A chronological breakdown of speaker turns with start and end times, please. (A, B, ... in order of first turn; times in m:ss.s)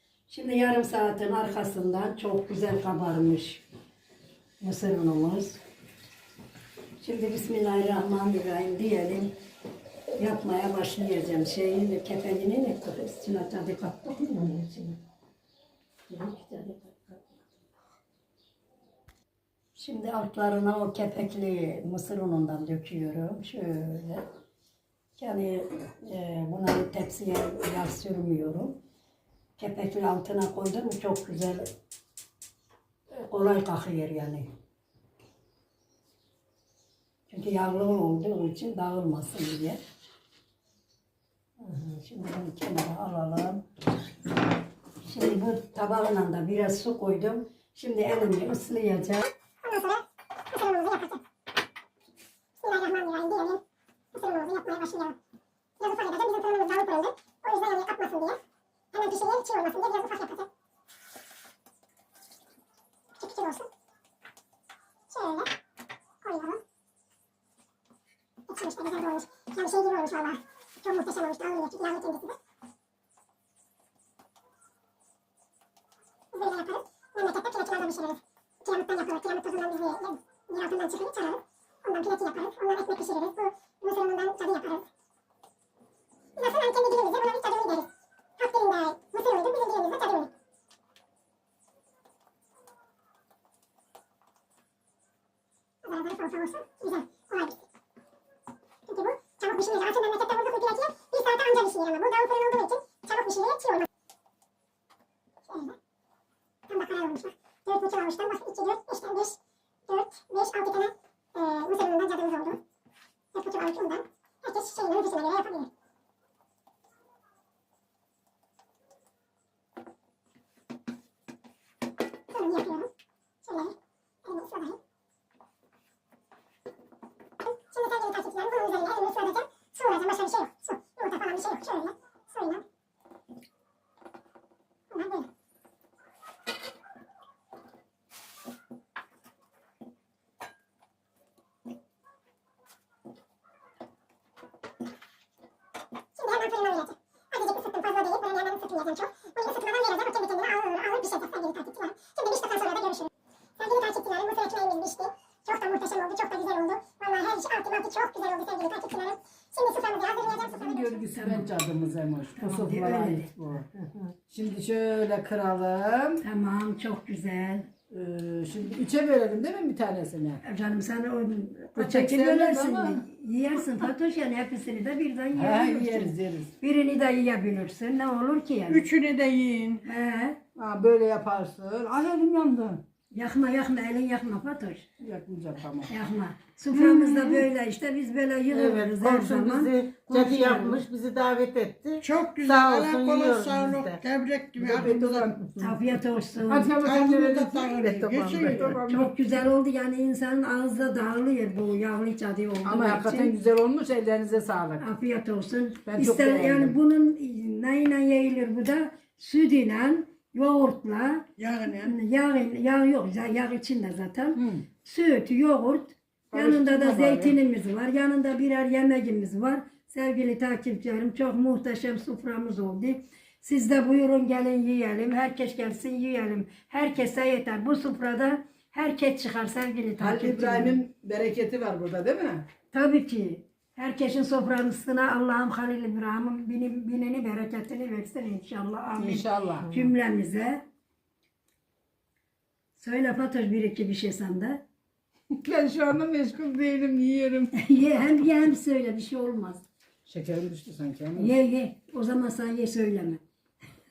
0:00.3-0:03.6 A
0:04.6-0:05.6 A
0:07.0-0:09.3 A
0:10.2-0:15.0 A
0:16.1-0:17.4 A
0:19.8-0:24.2 A
0:25.2-0:28.8 A
0:29.6-0:31.7 A
0:33.1-0:34.5 A
0:37.3-0:39.8 A
0:41.6-0:43.6 A
0:45.0-0:49.3 A
0:49.6-0:51.2 B
0:52.6-0:53.6 B
0:54.1-0:55.1 B
0:55.8-0:58.4 B
0:58.9-1:00.5 B
1:03.2-1:03.7 B
1:05.1-1:05.5 B
1:06.2-1:06.6 B
1:08.5-1:12.4 B
1:16.3-1:24.8 B
1:26.4-1:30.3 B
1:35.8-1:37.6 B
1:38.9-1:43.9 B
1:45.5-1:45.8 B
1:46.7-1:52.6 B
1:53.3-1:55.7 B
2:02.3-2:02.9 B
2:03.4-2:04.8 B
2:07.5-2:12.6 B
2:14.9-2:15.3 B
2:26.1-2:41.0 B
2:40.2-2:43.7 C
2:41.1-2:41.5 A
2:42.4-2:43.3 A
2:44.3-2:46.2 C
2:46.2-2:47.7 A
2:47.9-2:50.4 C
2:50.4-2:58.9 A
2:51.7-2:53.0 C
2:55.3-2:56.5 C
2:58.8-2:59.8 D
2:59.8-3:00.4 A
3:00.5-3:02.8 C
3:03.1-3:04.9 A
3:05.0-3:05.9 C
3:05.9-3:10.8 A
3:06.7-3:07.4 C
3:08.5-3:14.0 E
3:12.0-3:15.1 D
3:14.6-3:15.7 C
3:15.6-3:16.7 A
3:16.5-3:19.1 C
3:16.8-3:18.6 D
3:17.9-3:18.8 E
3:18.8-3:23.3 A
3:22.6-3:24.8 C
3:24.8-3:50.8 A
3:25.8-3:26.7 C
3:34.4-3:34.6 C
3:36.3-3:37.3 C
3:50.0-3:52.4 C
3:52.7-4:00.6 A
3:59.0-3:59.8 C
4:02.8-4:04.6 A
4:05.3-4:07.5 C
4:07.5-4:09.6 A
4:10.1-4:11.3 C
4:11.2-4:13.2 A